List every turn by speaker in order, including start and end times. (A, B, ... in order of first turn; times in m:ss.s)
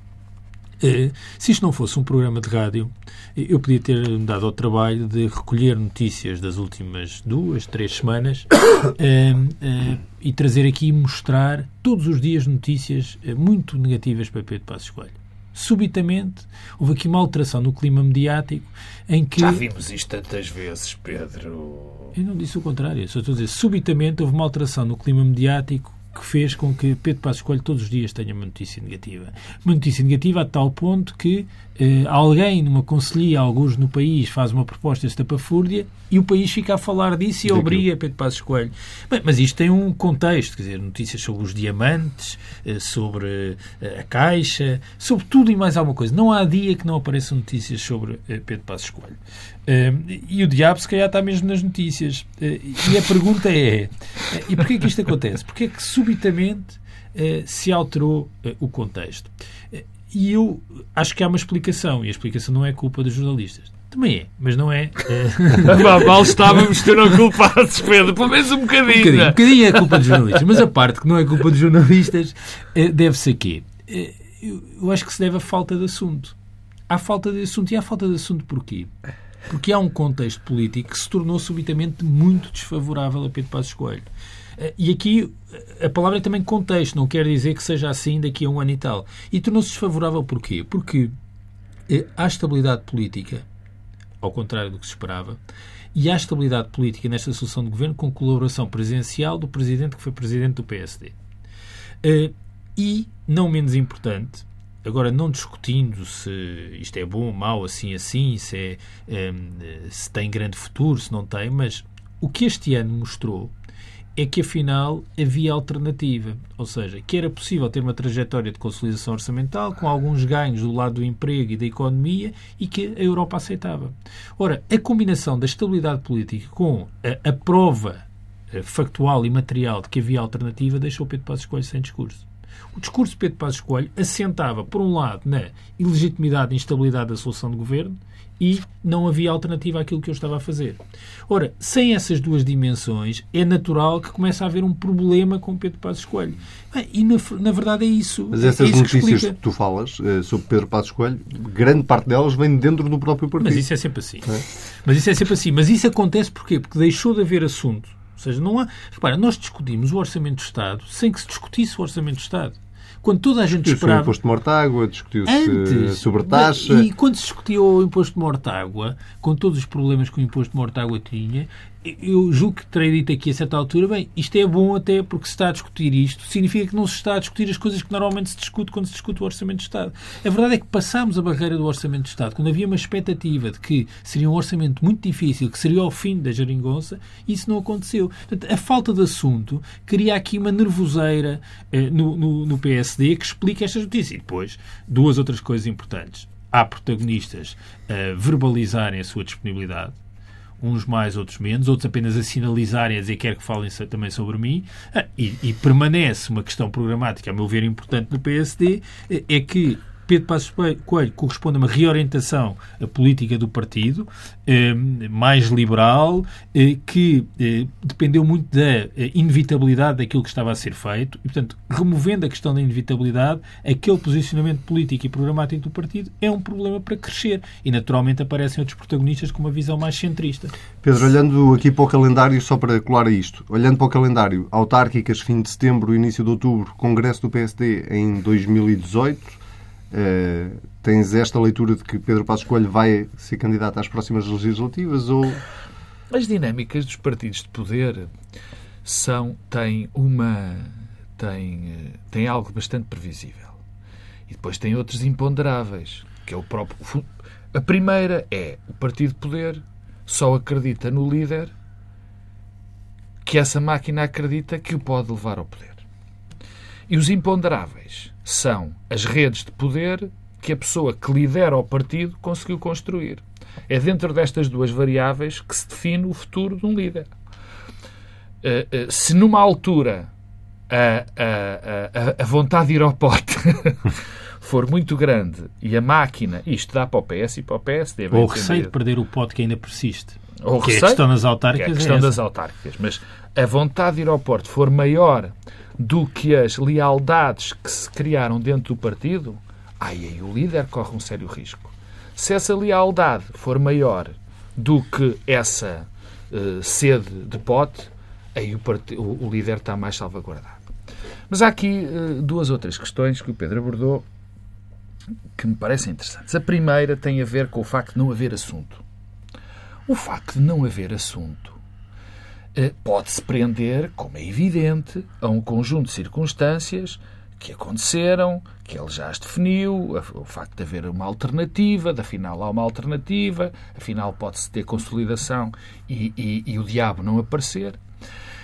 0:00.8-0:19.6 A
0:19.4-0:22.1 B
0:22.1-1:06.6 A
0:37.5-0:37.8 C
1:05.6-1:10.3 B
1:08.9-1:16.3 A
1:16.9-1:18.9 A
1:19.5-1:31.1 A
1:31.9-1:33.4 A
1:34.2-1:35.4 A
1:35.9-1:41.1 A
1:42.0-1:53.5 A
1:54.2-2:29.3 A
2:28.3-2:33.7 C
2:33.4-2:34.3 A
2:34.8-2:44.1 A
2:43.6-2:46.9 C
2:45.3-3:20.0 A
3:20.6-3:50.5 A
3:50.8-3:59.4 C
3:59.9-4:05.4 C
4:06.1-4:08.1 B
4:08.8-4:13.6 B
4:14.3-4:21.5 B
4:23.2-4:25.8 B
4:26.9-4:37.1 B
4:38.4-4:40.1 B
4:40.7-4:48.7 B
4:48.1-4:52.2 A
4:50.4-5:10.6 B
5:11.3-5:14.0 B
5:15.4-5:18.8 B
5:19.9-5:21.6 B
5:22.5-5:37.8 B